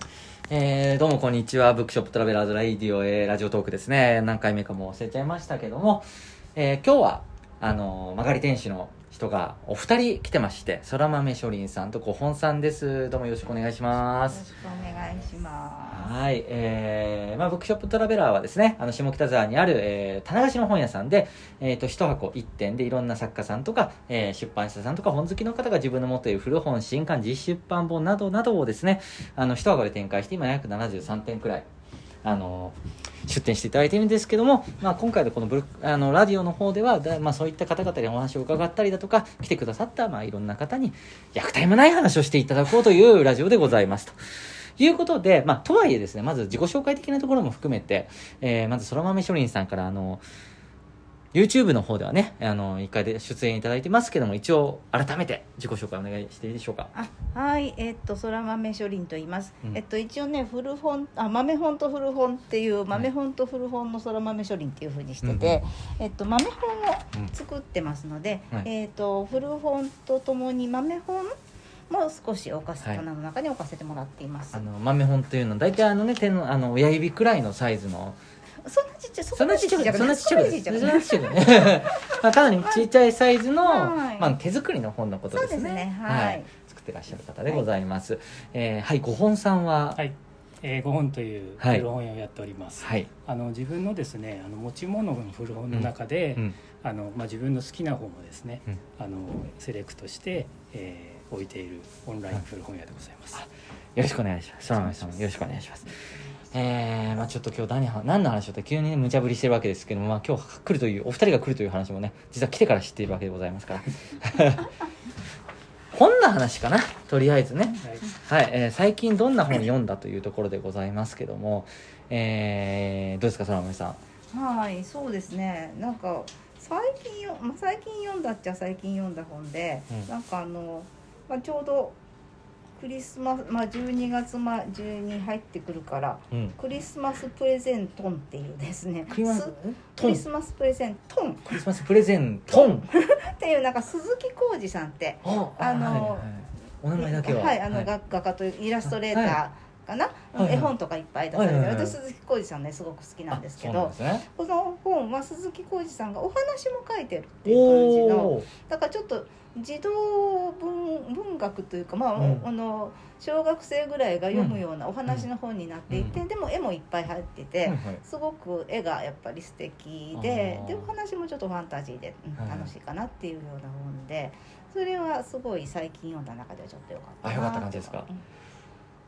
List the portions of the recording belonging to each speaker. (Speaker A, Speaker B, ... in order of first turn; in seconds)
Speaker A: 0.5-14.4, 15.9-31.7, 32.2-44.2, 44.8-50.2, 51.3-56.9, 65.2-65.6, 74.5-78.2, 79.3-90.0, 91.6-91.9, 92.8-93.1, 95.7-96.5, 103.4-105.9, 106.5-114.7, 115.9-124.0, 139.1-140.2, 141.5-142.9, 145.2-147.9, 149.0-149.4, 150.3-150.7, 151.3-152.0, 153.3-154.3, 157.4-158.5, 162.2-162.4, 164.3-165.2, 165.9-166.2, 167.7-168.0, 170.2-170.9, 172.4-172.7, 177.2-178.1
Speaker B: 14.2-16.1, 56.9-71.3, 71.9-74.7, 78.6-82.8, 83.6-84.4, 85.3-86.5, 124.3-132.0, 132.8-141.7, 142.5-146.3, 146.9-178.2
Speaker C: 90.0-103.4, 117.8-118.1